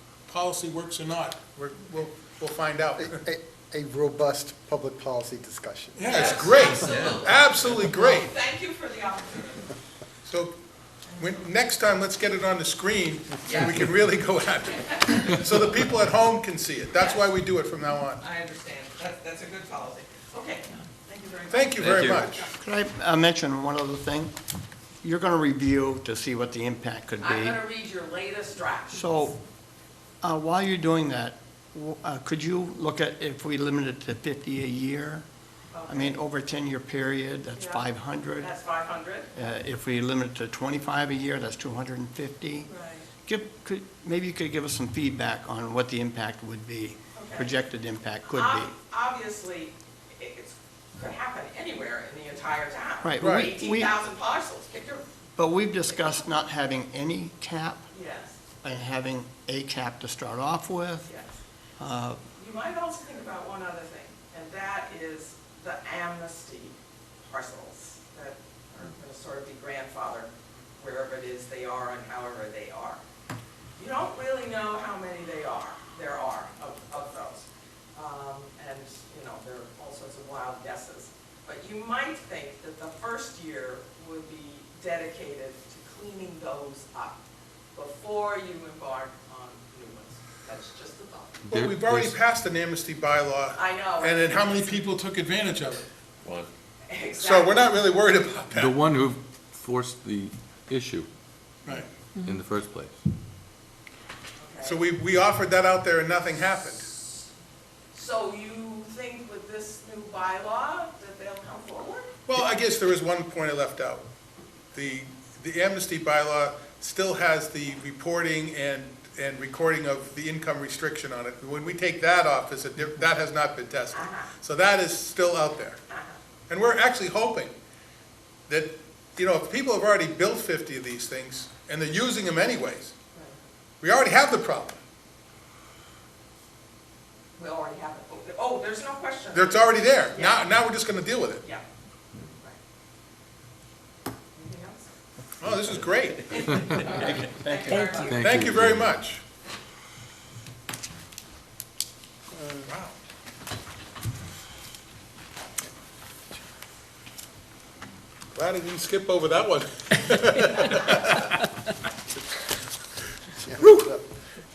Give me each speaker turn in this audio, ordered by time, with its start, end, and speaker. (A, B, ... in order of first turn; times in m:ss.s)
0:00.3-0:03.2 A
0:03.0-0:06.2 B
0:06.0-0:08.3 A
0:06.0-0:09.8 C
0:10.2-0:10.5 A
0:11.1-0:11.5 C
0:11.2-0:18.2 A
0:13.5-0:13.8 C
0:16.9-0:17.3 C
0:18.2-0:22.5 C
0:21.5-0:22.5 A
0:21.8-0:22.2 D
0:22.6-0:24.3 E
0:25.0-0:27.6 E
0:27.2-0:29.3 C
0:28.9-0:29.4 E
0:30.2-0:35.2 E
0:35.7-0:36.2 C
0:35.9-0:38.5 E
0:37.5-0:37.8 C
0:38.4-0:39.3 C
0:39.3-0:42.7 E
0:42.7-0:43.1 C
0:43.2-0:48.7 E
0:47.2-0:47.6 C
0:48.3-0:55.0 C
0:53.0-0:54.0 E
0:53.2-0:53.5 A
0:55.4-0:57.9 E
0:55.9-0:56.2 C
0:57.9-0:58.4 C
0:58.6-1:01.1 E
1:01.1-1:01.4 C
1:01.8-1:02.2 E
1:02.4-1:13.0 C
1:13.8-1:27.2 C
1:27.8-1:31.4 C
1:31.4-1:32.2 D
1:31.5-1:35.8 A
1:33.5-1:34.9 C
1:36.9-1:37.7 C
1:37.2-1:38.7 A
1:38.5-1:41.1 D
1:42.2-1:43.0 D
1:44.4-1:44.8 C
1:44.6-1:46.9 A
1:47.9-1:52.1 C
1:52.3-1:54.1 A
1:54.7-2:05.8 A
2:03.9-2:04.3 C
2:05.9-2:06.2 C
2:06.5-2:07.5 A
2:08.5-2:12.9 A
2:13.8-2:14.8 A
2:17.4-2:20.4 C
2:19.3-2:21.4 A
2:22.2-2:22.6 C
2:24.4-2:24.9 C
2:25.4-2:29.2 A
2:26.3-2:28.3 C
2:27.8-2:29.0 D
2:32.3-2:32.7 B
2:32.7-2:32.9 A
2:38.3-2:41.3 A
2:43.4-2:44.2 B
2:43.6-2:43.9 A